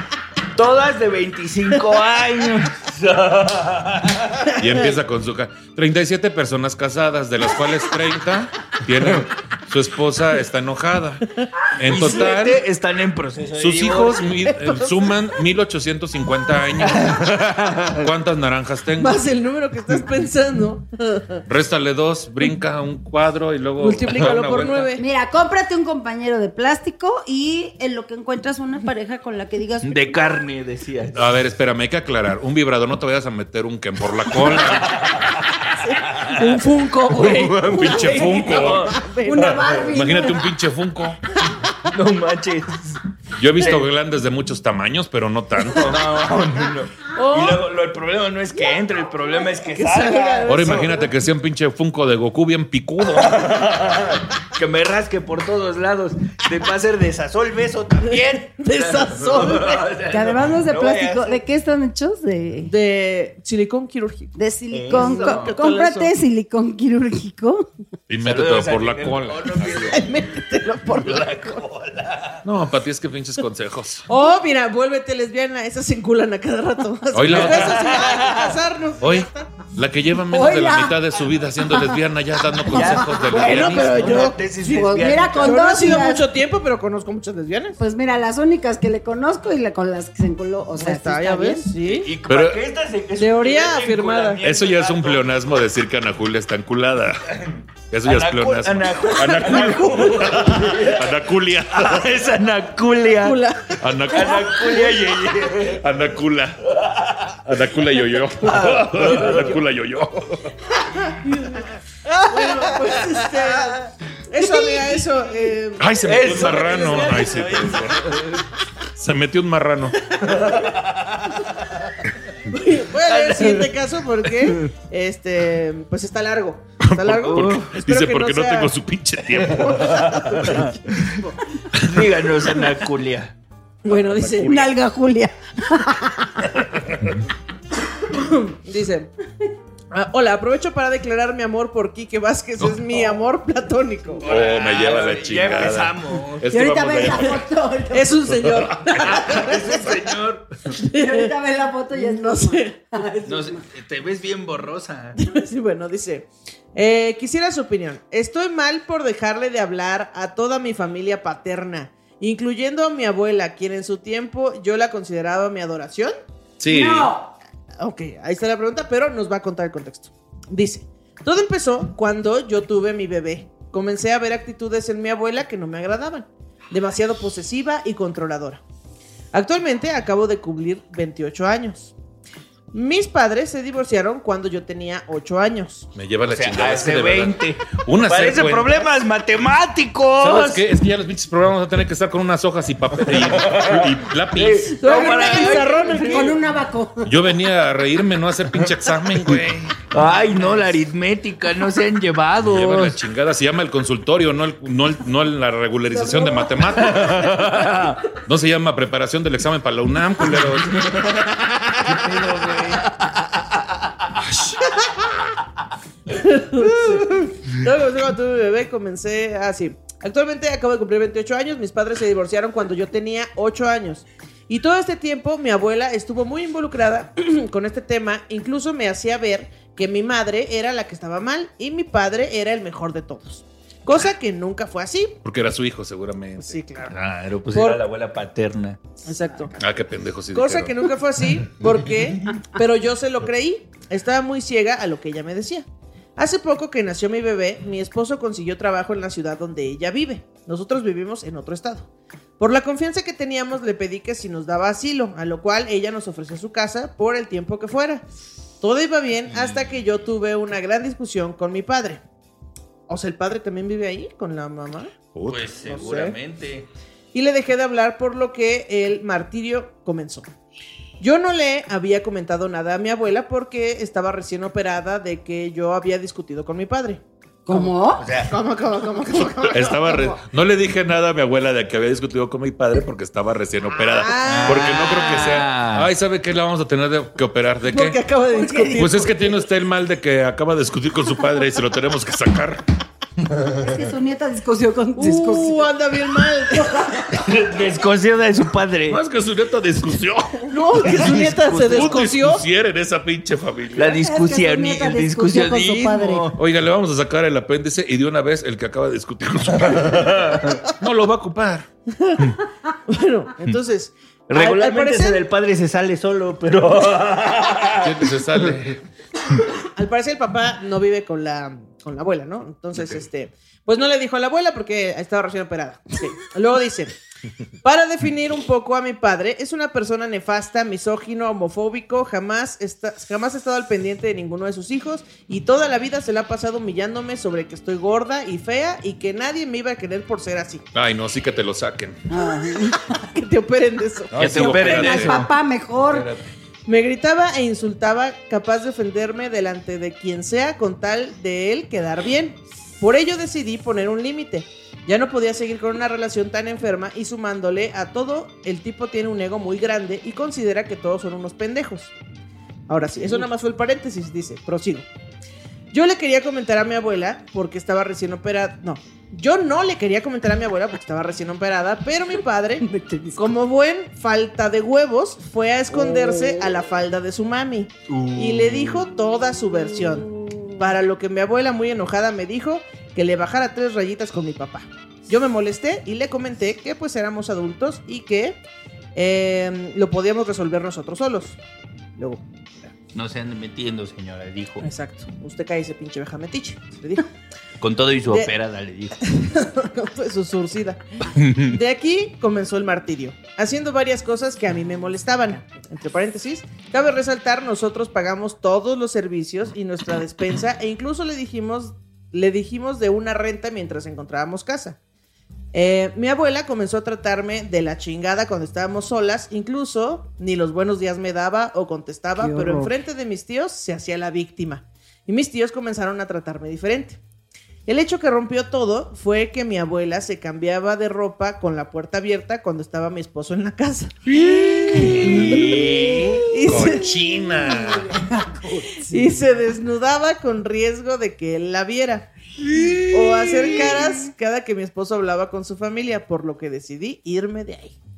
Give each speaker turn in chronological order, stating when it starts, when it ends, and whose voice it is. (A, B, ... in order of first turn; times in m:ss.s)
0:00.6-0:04.6 A
0:04.6-0:12.6 B
0:11.8-0:14.7 A
0:13.6-0:19.2 B
0:16.8-0:18.1 A
0:19.0-0:21.4 C
0:21.5-0:25.0 B
0:23.8-0:25.0 C
0:25.0-0:30.4 D
0:29.8-0:31.3 A
0:31.1-0:35.0 B
0:34.4-0:39.8 A
0:35.7-0:39.9 C
0:37.6-0:38.9 B
0:39.2-0:40.4 D
0:39.9-0:41.2 B
0:41.8-0:43.0 A
0:43.4-0:46.0 B
0:45.7-0:50.9 A
0:47.2-0:47.6 C
0:49.7-0:51.1 C
0:50.5-0:53.4 B
0:53.1-1:01.4 A
0:58.1-0:59.9 C
1:00.1-1:02.7 D
1:02.7-1:04.3 C
1:04.4-1:07.7 D
1:04.7-1:05.6 A
1:04.9-1:06.1 C
1:08.1-1:10.0 B
1:08.2-1:10.2 A
1:09.9-1:11.6 C
1:10.8-1:12.4 A
1:12.4-1:14.1 B
1:14.1-1:19.6 C
1:17.1-1:18.0 B
1:17.3-1:18.6 A
1:19.0-1:24.3 B
1:20.3-1:21.0 D
1:22.7-1:25.7 A
1:23.1-1:27.8 C
1:24.6-1:26.3 D
1:27.8-1:31.7 D
1:30.8-1:32.1 C
1:31.8-1:35.4 A
1:32.3-1:32.6 B
1:33.2-1:34.4 C
1:34.4-1:37.4 B
1:37.9-1:42.2 B
1:38.0-1:43.4 A
1:43.2-1:45.2 C
1:43.8-1:44.6 B
1:44.1-1:45.9 A
1:45.7-1:46.7 B
1:46.7-1:47.4 A
1:47.4-1:50.6 B
1:48.4-1:49.6 A
1:51.1-1:57.2 C
1:52.4-1:53.8 A
1:55.8-1:58.2 B
1:56.0-1:58.5 A
1:59.0-2:00.1 B
2:00.2-2:01.7 A
2:02.4-2:08.8 C
2:03.0-2:03.8 A
2:04.4-2:04.7 A
2:06.8-2:10.7 B
2:07.2-2:07.7 A
2:09.6-2:11.2 A
2:09.6-2:11.4 C
2:11.7-2:12.1 B
2:11.8-2:13.4 A
2:13.8-2:14.7 C
2:13.8-2:14.7 B
2:14.4-2:16.6 D
2:18.0-2:19.1 C
2:19.9-2:24.3 C
2:22.6-2:23.2 B
2:24.2-2:26.5 A
2:24.2-2:27.5 B
2:26.5-2:28.2 D
2:27.9-2:30.0 C
2:28.3-2:29.4 B
2:29.0-2:30.6 A
2:30.7-2:31.3 C
2:30.8-2:33.6 D
2:31.9-2:32.8 C
2:33.3-2:35.2 A
2:35.2-2:46.1 C
2:46.6-2:47.1 B
2:46.7-2:47.4 D
2:47.8-2:58.6 C
2:59.3-3:01.9 C
3:02.7-3:05.9 C
3:06.0-3:08.8 B
3:06.3-3:10.7 A
3:10.2-3:14.8 B
3:13.1-3:16.4 A
3:14.8-3:16.4 C
3:14.9-3:17.2 D
3:17.0-3:19.7 B
3:19.1-3:23.0 A
3:22.4-3:27.5 B
3:26.7-3:28.0 A
3:28.2-3:31.0 B
3:30.4-3:32.0 A
3:31.9-3:32.8 B
3:32.0-3:32.8 C
3:36.1-3:55.2 C
3:36.6-3:37.3 A
3:55.2-3:56.6 B
3:56.4-3:57.0 C
3:56.9-3:58.8 A
3:57.5-3:57.8 C
3:59.0-3:59.5 C
3:59.3-3:59.6 D
3:59.6-4:00.8 B
4:00.3-4:05.7 C
4:06.2-4:18.0 C
4:18.6-4:22.0 C
4:22.9-4:25.0 C
4:25.1-4:25.5 B
4:25.3-4:26.7 A
4:25.6-4:26.2 C
4:27.1-4:30.3 C
4:31.0-4:37.0 C
4:37.5-4:38.1 D
4:38.0-4:38.3 A
4:38.2-4:40.2 C
4:39.4-4:48.0 B
4:43.8-4:45.4 C
4:44.2-4:45.9 A
4:47.7-4:49.5 C
4:48.3-4:48.8 D
4:48.8-4:52.6 B
4:53.5-4:55.7 D
4:55.0-4:57.1 C
4:56.5-4:57.1 D
4:57.1-4:59.0 A
4:58.9-5:00.9 B
5:00.5-5:02.4 C
5:00.8-5:02.0 A
5:01.7-5:04.0 B
5:03.8-5:06.4 A
5:03.8-5:06.3 D
5:06.4-5:11.7 B
5:09.7-5:10.6 A
5:12.0-5:12.3 C
5:12.9-5:15.2 C
5:14.3-5:18.7 A
5:17.8-5:18.8 B
5:19.8-5:27.0 C
5:27.6-5:40.6 C
5:40.7-5:42.0 B
5:42.1-5:42.9 D
5:42.9-5:45.0 C
5:44.1-5:46.3 B
5:44.2-5:45.3 A
5:44.3-5:46.1 D
5:46.7-6:01.9 C
6:02.7-6:04.9 C
6:05.7-6:12.7 C
6:12.6-6:13.3 D
6:13.2-6:28.4 C
6:15.7-6:16.7 D
6:17.9-6:18.8 A
6:19.5-6:20.7 D
6:29.0-6:31.4 C
6:32.0-6:32.2 C
6:32.9-6:34.7 A
6:34.6-6:37.1 C
6:37.6-6:39.0 A
6:39.0-6:54.8 C
6:41.1-6:41.6 A
6:55.5-7:07.0 C
7:02.2-7:02.8 D
7:07.7-7:15.7 C
7:14.2-7:19.1 D
7:14.8-7:16.2 A
7:14.8-7:15.2 B
7:16.3-7:16.9 C
7:16.4-7:17.9 B
7:18.8-7:22.1 C
7:22.6-7:24.1 D
7:22.9-7:27.8 C